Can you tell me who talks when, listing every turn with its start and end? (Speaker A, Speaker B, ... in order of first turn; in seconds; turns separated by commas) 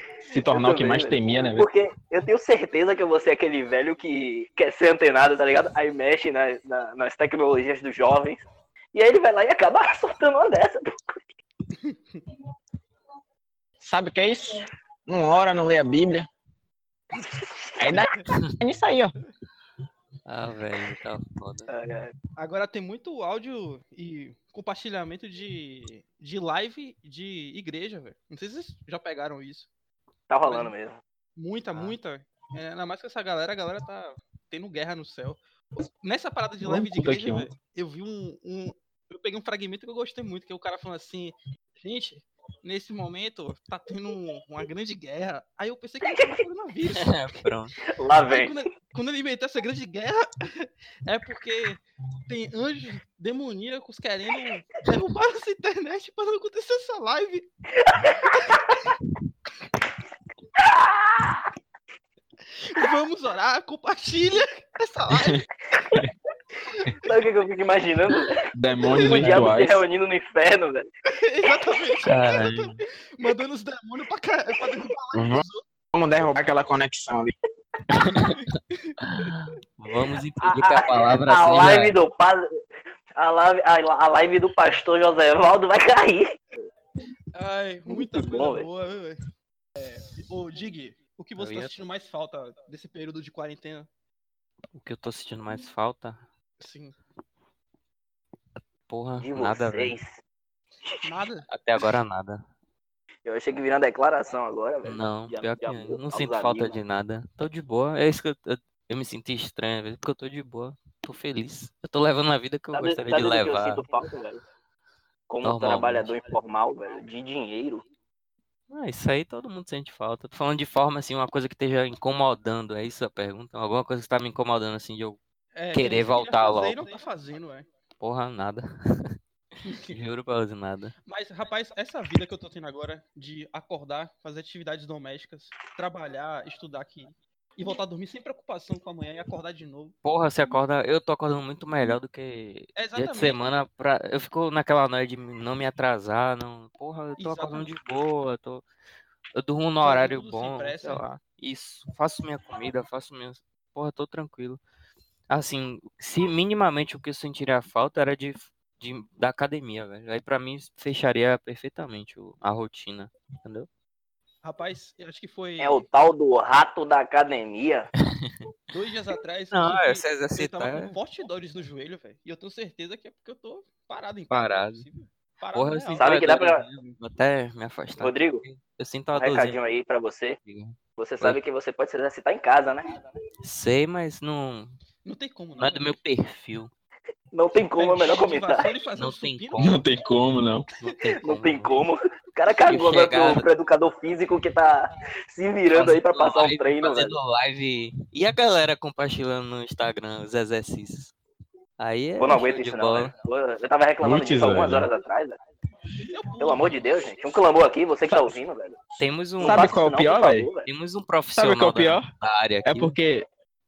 Speaker A: 0.3-1.7, Speaker B: 0.5-8.4, Speaker B: 8.9-11.1, Speaker C: 11.8-12.2, Speaker A: 13.8-16.3, Speaker B: 17.1-18.1, Speaker A: 17.8-19.1, Speaker D: 20.2-21.7, Speaker B: 21.7-22.1, Speaker C: 22.4-29.7, Speaker B: 30.3-31.0, Speaker C: 30.4-30.7, Speaker C: 31.4-47.2, Speaker A: 36.6-37.5, Speaker D: 46.9-47.7, Speaker B: 47.9-48.6, Speaker C: 48.2-57.5, Speaker B: 57.8-58.8, Speaker B: 60.5-61.4, Speaker C: 62.6-65.4, Speaker A: 65.1-65.4, Speaker B: 67.0-70.9, Speaker A: 68.5-69.8, Speaker C: 71.1-75.6, Speaker B: 71.5-71.8, Speaker D: 72.0-72.8, Speaker A: 75.1-77.3, Speaker D: 78.0-78.4, Speaker C: 78.1-78.9, Speaker D: 79.0-82.0, Speaker B: 80.4-82.5, Speaker B: 83.2-86.3, Speaker C: 87.3-89.2, Speaker B: 87.9-88.7, Speaker C: 89.8-93.9, Speaker D: 91.4-91.8, Speaker D: 94.7-96.2, Speaker C: 96.6-97.0, Speaker D: 98.9-99.9, Speaker B: 99.2-100.2, Speaker C: 101.0-101.5, Speaker D: 101.5-102.4, Speaker B: 103.2-106.8, Speaker D: 104.8-113.8, Speaker B: 112.7-114.4, Speaker B: 115.3-117.8, Speaker D: 115.4-116.1, Speaker D: 118.7-125.2, Speaker C: 125.5-127.7, Speaker D: 125.7-126.9, Speaker D: 128.0-129.2, Speaker C: 129.6-129.9, Speaker D: 129.9-130.9, Speaker C: 131.1-139.9, Speaker D: 140.0-148.6, Speaker C: 142.8-143.4, Speaker C: 147.2-147.7, Speaker D: 149.3-154.6, Speaker C: 149.8-151.1, Speaker D: 155.3-163.7, Speaker C: 164.4-165.8, Speaker B: 165.6-167.9, Speaker C: 168.7-176.1, Speaker D: 169.5-171.0, Speaker D: 174.3-174.8, Speaker D: 175.5-179.6, Speaker B: 176.0-176.6, Speaker B: 178.0-178.4, Speaker B: 179.1-180.4, Speaker D: 180.4-181.4, Speaker B: 181.0-182.8, Speaker D: 183.4-184.8, Speaker C: 185.0-185.9, Speaker D: 185.6-186.7, Speaker B: 187.3-188.7, Speaker C: 187.7-189.8, Speaker D: 188.9-189.8, Speaker A: 189.6-190.7, Speaker D: 190.8-191.8, Speaker B: 191.2-197.2, Speaker D: 192.7-193.5, Speaker D: 195.7-201.1, Speaker D: 201.8-203.1, Speaker B: 202.2-205.3, Speaker A: 204.0-204.9, Speaker C: 206.1-206.8, Speaker B: 206.4-208.8, Speaker A: 208.1-208.4, Speaker D: 209.0-209.8, Speaker A: 209.4-210.5, Speaker B: 209.4-210.7, Speaker D: 210.7-212.9, Speaker A: 211.3-212.1, Speaker A: 212.6-213.2